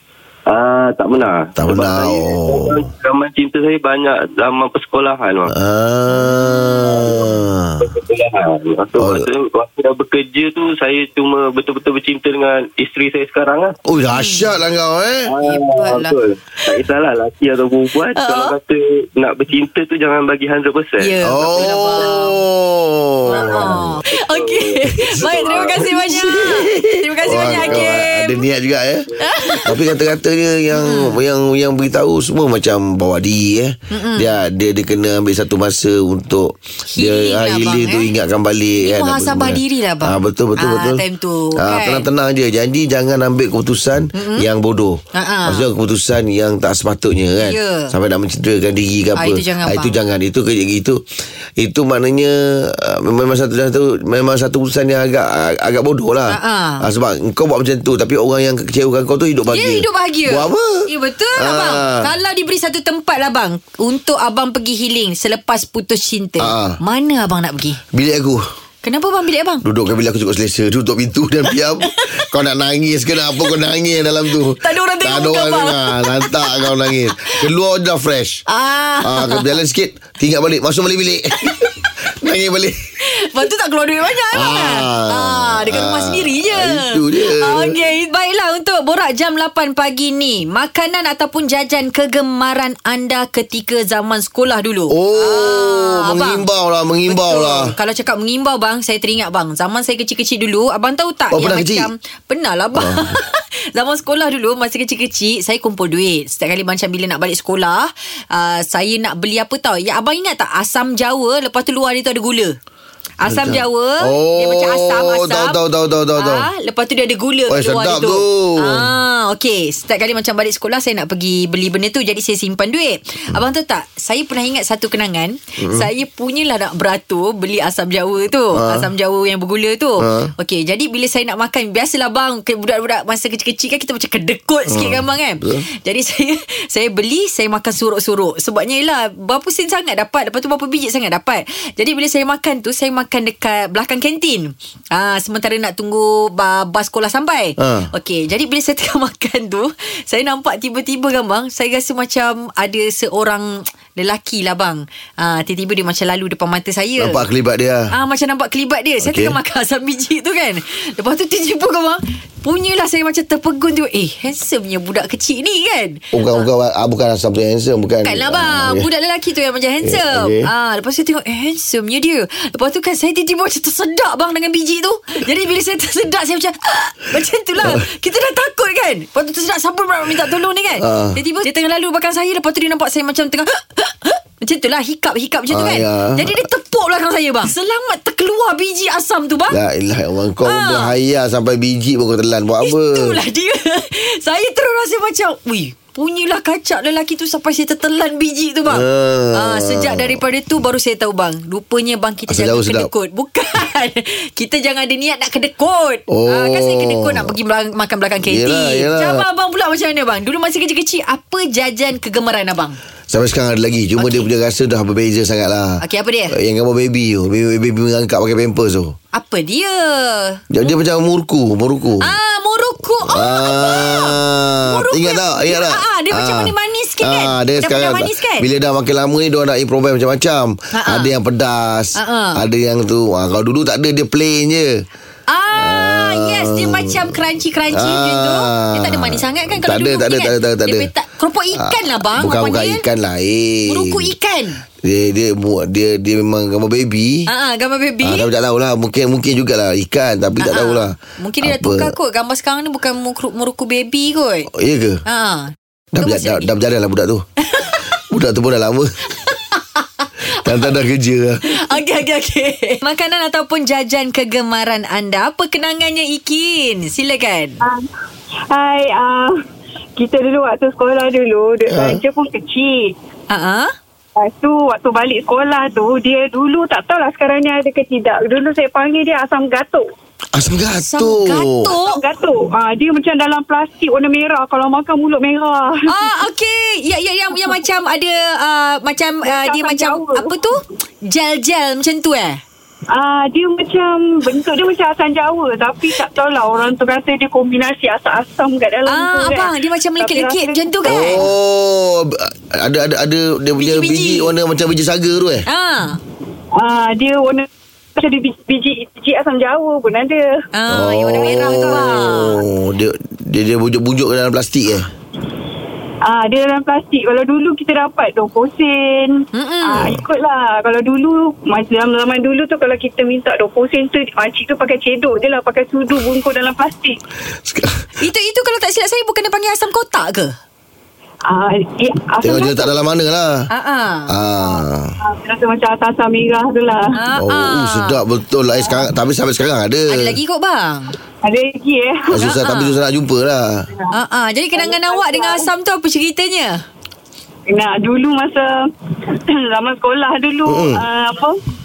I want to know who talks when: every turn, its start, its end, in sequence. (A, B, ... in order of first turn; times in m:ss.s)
0:00.5-0:05.5 A
0:01.6-0:02.9 B
0:05.5-0:07.9 B
0:06.1-0:07.2 C
0:07.0-0:07.3 A
0:07.8-0:13.8 A
0:09.0-0:09.3 B
0:13.9-0:15.4 B
0:14.1-0:14.5 C
0:15.3-0:21.1 A
0:15.4-0:16.2 C
0:18.2-0:18.6 C
0:21.0-0:22.4 C
0:21.2-0:24.0 B
0:23.3-0:28.4 C
0:23.4-0:26.0 A
0:25.2-0:29.1 B
0:27.3-0:28.0 A
0:29.2-0:29.7 C
0:29.6-0:41.0 B
0:30.7-0:31.2 C
0:33.9-0:34.3 C
0:36.9-0:38.1 C
0:38.8-0:42.1 C
0:41.6-0:51.0 B
0:44.2-0:44.5 C
0:45.1-0:45.7 C
0:47.4-0:47.9 C
0:49.2-0:50.0 C
0:51.6-1:02.1 B
0:56.3-0:56.9 C
0:59.5-1:07.8 C
1:06.4-1:06.8 B
1:07.9-1:08.4 B
1:08.8-1:09.6 C
1:09.6-1:18.4 B
1:14.6-1:17.4 C
1:18.5-1:19.5 C
1:19.0-1:22.8 B
1:23.0-1:36.4 C
1:24.3-1:27.8 B
1:34.9-1:37.8 B
1:37.1-1:52.6 C
1:41.3-1:41.9 B
1:42.8-1:43.2 B
1:53.2-1:55.6 C
1:53.2-1:56.5 B
1:56.2-2:37.2 C
1:57.5-1:58.9 B
2:05.6-2:05.9 B
2:08.6-2:08.9 B
2:10.0-2:10.3 B
2:14.7-2:15.7 B
2:27.6-2:27.9 B
2:37.0-2:37.9 B
2:37.9-2:46.5 C
2:39.0-2:39.4 B
2:46.1-2:48.9 B
2:48.0-3:09.6 C
2:49.8-2:50.5 B
3:00.8-3:01.2 B
3:05.5-3:06.4 B
3:09.5-3:13.2 B
3:10.4-3:11.0 C
3:12.6-3:32.8 C
3:18.7-3:20.2 B
3:22.3-3:22.9 B
3:26.1-3:27.3 B
3:28.2-3:29.2 B
3:33.1-3:39.0 B
3:34.0-3:34.3 C
3:35.8-3:36.4 C
3:39.1-3:40.4 C
3:40.5-3:42.2 B
3:42.0-3:48.5 C
3:43.1-3:54.8 B
3:50.7-3:51.1 C
3:52.0-3:52.4 C
3:55.3-4:02.8 C
3:55.5-3:57.1 B
3:57.7-4:00.9 B
4:01.5-4:04.1 B
4:03.7-4:04.6 C
4:04.8-4:07.3 B
4:07.3-4:08.3 C
4:08.0-4:12.0 B
4:10.4-4:14.5 C
4:14.5-4:15.0 B
4:15.1-4:16.5 C
4:15.9-4:17.2 B
4:18.1-4:18.9 B
4:19.2-4:20.7 C
4:20.4-4:21.7 B
4:21.4-4:27.6 C
4:27.6-4:27.9 D
4:28.5-4:29.4 D
4:30.0-4:32.9 D
4:31.7-4:32.0 B
4:33.3-4:33.7 C
4:34.2-4:39.8 D
4:40.3-4:41.7 B
4:40.8-4:42.0 C
4:41.7-4:46.1 D
4:45.9-4:52.4 C
4:49.2-4:50.4 D
4:52.9-5:01.2 D
4:58.9-5:01.2 C
5:00.8-5:05.5 B
5:03.6-5:04.3 C
5:05.5-5:06.0 C
5:06.6-5:10.4 D
5:10.5-5:12.4 C
5:10.7-5:14.9 B
5:16.0-5:27.0 D
5:19.3-5:19.9 C
5:27.4-5:27.8 B
5:28.0-5:30.3 C
5:31.3-5:32.7 D
5:32.2-5:33.4 B
5:33.5-5:34.1 C
5:34.1-5:35.0 B
5:35.0-5:37.0 D
5:37.0-5:38.0 C
5:37.2-5:40.2 B
5:39.9-5:40.9 C
5:41.2-5:42.2 D
5:42.1-5:43.7 B
5:42.2-5:42.8 C
5:43.9-5:46.6 C
5:44.6-5:45.5 D
5:47.5-5:48.5 D
5:49.1-5:51.4 D
5:50.5-5:50.8 B